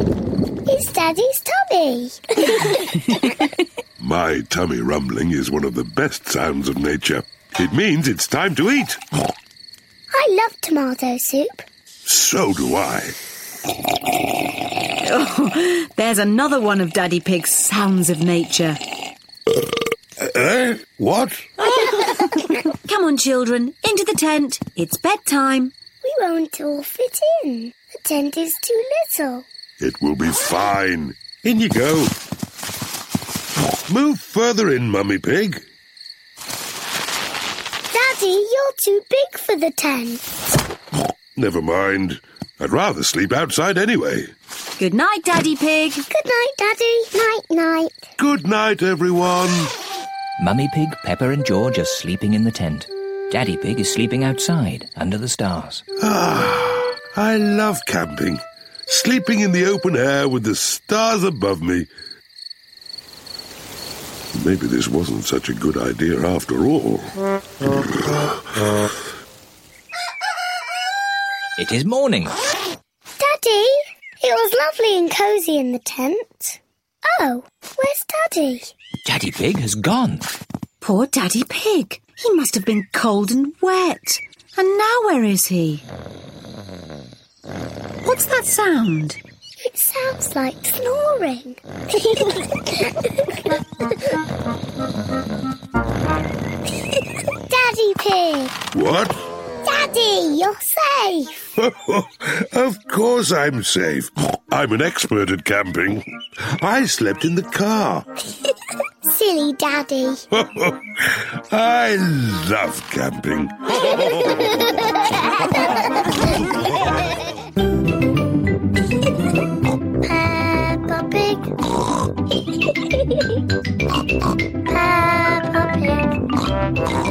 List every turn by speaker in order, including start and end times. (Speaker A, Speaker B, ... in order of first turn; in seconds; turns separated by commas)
Speaker A: 0.7-3.4, Speaker B: 4.0-9.0, Speaker A: 10.1-11.7, Speaker B: 12.1-13.2, Speaker C: 15.0-18.8, Speaker B: 20.2-21.5, Speaker C: 21.7-25.7, Speaker A: 26.0-29.5, Speaker B: 29.8-32.1, Speaker B: 33.9-35.6, Speaker A: 37.9-40.4, Speaker B: 41.4-44.3, Speaker C: 44.8-46.0, Speaker A: 46.1-48.0, Speaker B: 48.2-49.7, Speaker D: 50.4-55.8, Speaker B: 56.0-61.9, Speaker B: 64.3-67.2, Speaker D: 71.6-72.4, Speaker A: 73.2-78.7, Speaker D: 79.0-80.3, Speaker C: 80.8-85.8, Speaker C: 88.0-89.2, Speaker A: 89.6-93.4, Speaker A: 97.5-98.5, Speaker B: 98.7-99.3, Speaker A: 99.6-101.4, Speaker B: 101.6-108.1, Speaker A: 109.0-110.2, Speaker B: 110.3-114.5, Speaker A: 120.0-121.5, Speaker A: 124.7-126.2